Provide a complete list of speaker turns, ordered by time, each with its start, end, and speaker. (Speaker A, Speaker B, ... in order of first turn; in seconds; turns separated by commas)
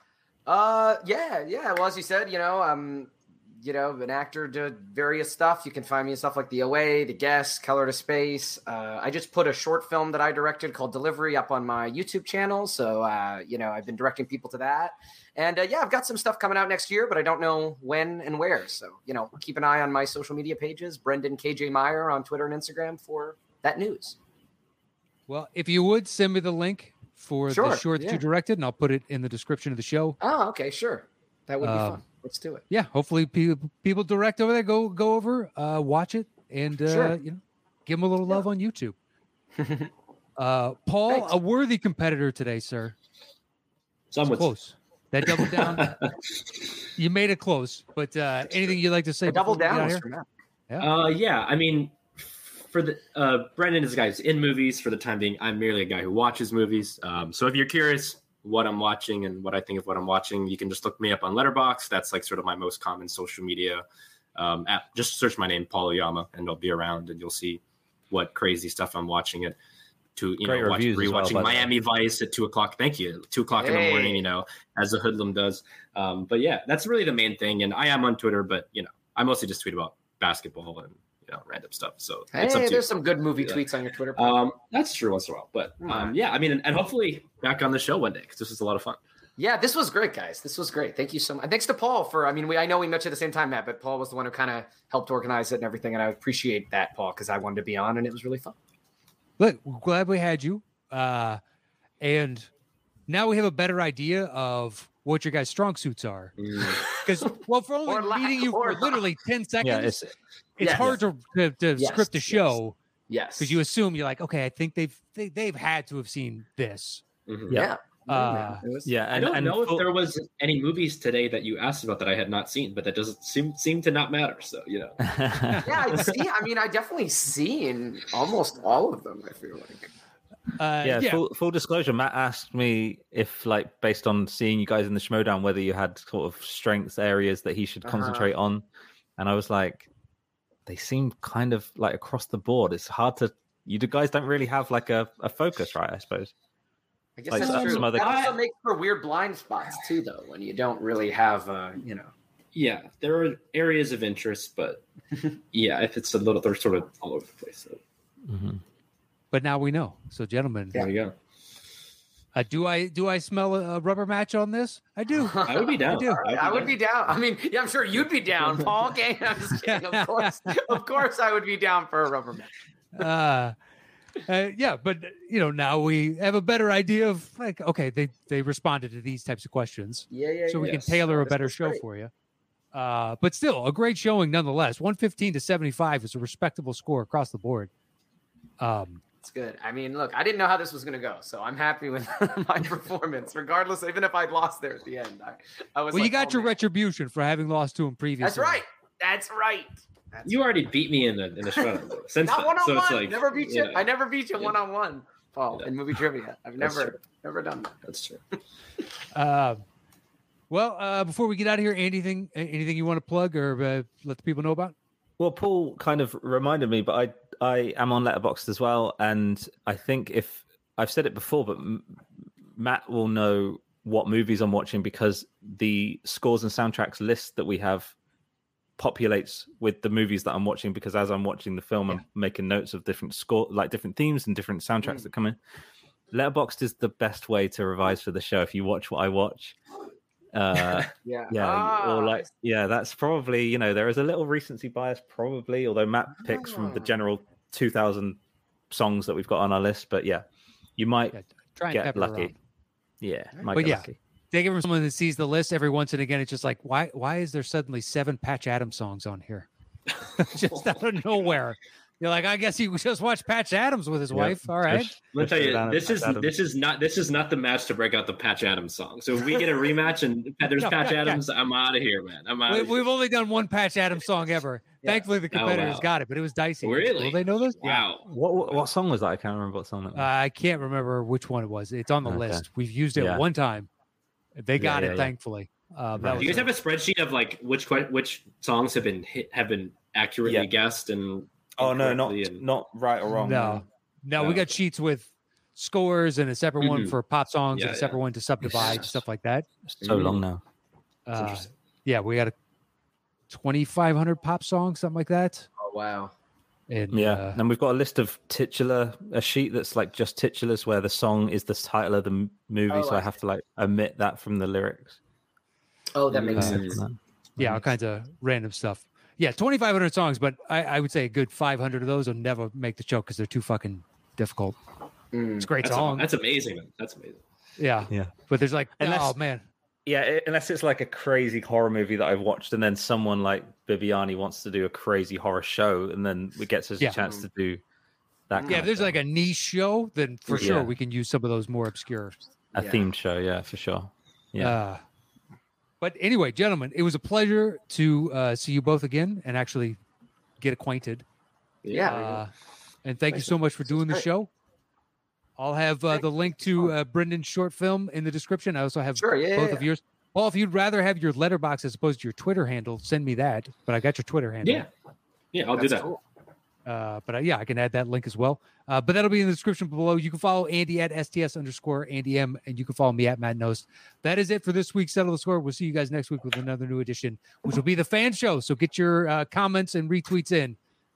Speaker A: 0.5-24.2, Speaker B: 25.3-30.2, Speaker A: 27.5-28.2, Speaker A: 30.2-32.6, Speaker B: 31.6-32.0, Speaker B: 32.7-39.0, Speaker A: 36.9-37.2, Speaker A: 39.6-39.9, Speaker B: 40.4-43.0, Speaker C: 44.1-44.5, Speaker B: 44.3-45.9, Speaker C: 45.3-46.1, Speaker B: 47.0-50.0, Speaker A: 49.3-50.3, Speaker C: 50.8-63.9, Speaker C: 64.4-69.6, Speaker C: 70.2-89.0, Speaker D: 70.4-71.7, Speaker A: 73.5-74.2, Speaker A: 82.3-84.4, Speaker A: 85.8-86.2, Speaker A: 89.4-98.6, Speaker B: 99.4-101.4, Speaker B: 102.0-102.5, Speaker B: 103.1-106.3, Speaker C: 106.4-106.8, Speaker B: 106.9-110.0, Speaker A: 107.9-109.0, Speaker D: 109.6-110.1, Speaker B: 110.6-112.8, Speaker A: 110.6-111.0, Speaker D: 110.7-111.0, Speaker A: 111.8-112.6, Speaker A: 113.1-113.6, Speaker B: 113.4-117.0, Speaker C: 117.3-117.7, Speaker A: 117.5-118.9, Speaker B: 118.1-118.6, Speaker D: 118.8-119.9, Speaker C: 119.1-125.0, Speaker D: 125.0-125.7, Speaker A: 125.6-129.9, Speaker C: 125.9-126.2, Speaker B: 130.6-131.2, Speaker D: 130.8-138.7, Speaker A: 137.8-138.3, Speaker D: 139.2-139.9, Speaker D: 140.7-146.3, Speaker A: 147.2-152.1, Speaker D: 147.3-148.2, Speaker C: 147.3-148.4, Speaker C: 152.6-154.8, Speaker C: 155.5-157.8, Speaker D: 158.3-158.6, Speaker B: 159.3-160.9, Speaker C: 160.8-161.2, Speaker B: 162.3-166.2, Speaker A: 165.2-172.5, Speaker C: 165.4-166.8, Speaker B: 169.7-170.8, Speaker B: 172.9-173.6, Speaker B: 174.2-182.1, Speaker A: 180.1-181.8, Speaker B: 182.7-187.7, Speaker B: 188.6-189.0, Speaker A: 189.2-196.6, Speaker B: 195.9-198.6, Speaker A: 198.2-200.5, Speaker C: 200.2-204.5, Speaker A: 202.2-207.7, Speaker C: 206.6-207.0, Speaker C: 207.8-208.2, Speaker B: 209.1-209.6, Speaker B: 210.5-214.8, Speaker D: 215.2-222.0, Speaker D: 222.6-227.9, Speaker D: 228.8-235.4, Speaker D: 236.1-239.6, Speaker D: 240.3-248.2, Speaker A: 241.0-242.3, Speaker A: 246.2-246.9, Speaker D: 248.7-250.2, Speaker D: 250.8-251.2, Speaker B: 251.1-252.4, Speaker D: 251.7-252.3, Speaker D: 253.0-254.0, Speaker B: 253.5-259.5, Speaker B: 260.1-266.3, Speaker D: 264.1-265.0, Speaker C: 265.1-272.8, Speaker B: 270.6-271.2, Speaker B: 272.5-277.9, Speaker C: 275.3-275.9, Speaker C: 276.6-278.6, Speaker D: 278.1-280.1, Speaker B: 279.9-283.7, Speaker D: 282.1-282.4, Speaker D: 283.0-283.2, Speaker B: 284.4-286.5, Speaker D: 284.6-285.1, Speaker D: 286.0-286.4, Speaker C: 286.1-292.4, Speaker D: 290.2-290.5, Speaker D: 291.6-293.6, Speaker B: 293.1-299.5, Speaker C: 294.2-294.5, Speaker C: 296.6-297.0, Speaker C: 297.5-299.0, Speaker D: 299.7-300.4, Speaker C: 299.8-300.2, Speaker B: 301.1-302.3, Speaker B: 303.3-305.5, Speaker A: 305.6-306.1, Speaker B: 306.7-307.4, Speaker D: 306.9-315.0, Speaker A: 312.7-313.1, Speaker A: 315.9-316.8, Speaker C: 316.1-316.8, Speaker D: 316.5-317.7, Speaker B: 317.4-324.6, Speaker A: 325.1-325.5, Speaker B: 325.4-326.1, Speaker C: 325.6-327.2, Speaker B: 327.6-329.5, Speaker D: 328.8-329.2, Speaker D: 329.9-337.6, Speaker D: 338.3-339.0, Speaker A: 338.3-338.6, Speaker B: 338.5-342.1, Speaker D: 340.3-340.7, Speaker D: 342.6-344.6, Speaker A: 342.6-342.9, Speaker B: 344.4-344.8, Speaker B: 345.8-349.8, Speaker B: 350.4-351.1, Speaker C: 351.6-352.2, Speaker A: 351.7-352.2, Speaker B: 351.9-352.3, Speaker B: 352.9-354.3, Speaker A: 353.1-354.1, Speaker B: 355.4-364.7, Speaker A: 356.0-356.7, Speaker A: 359.0-359.7, Speaker C: 364.4-364.7, Speaker C: 365.3-365.9, Speaker A: 365.6-366.0, Speaker B: 366.7-380.6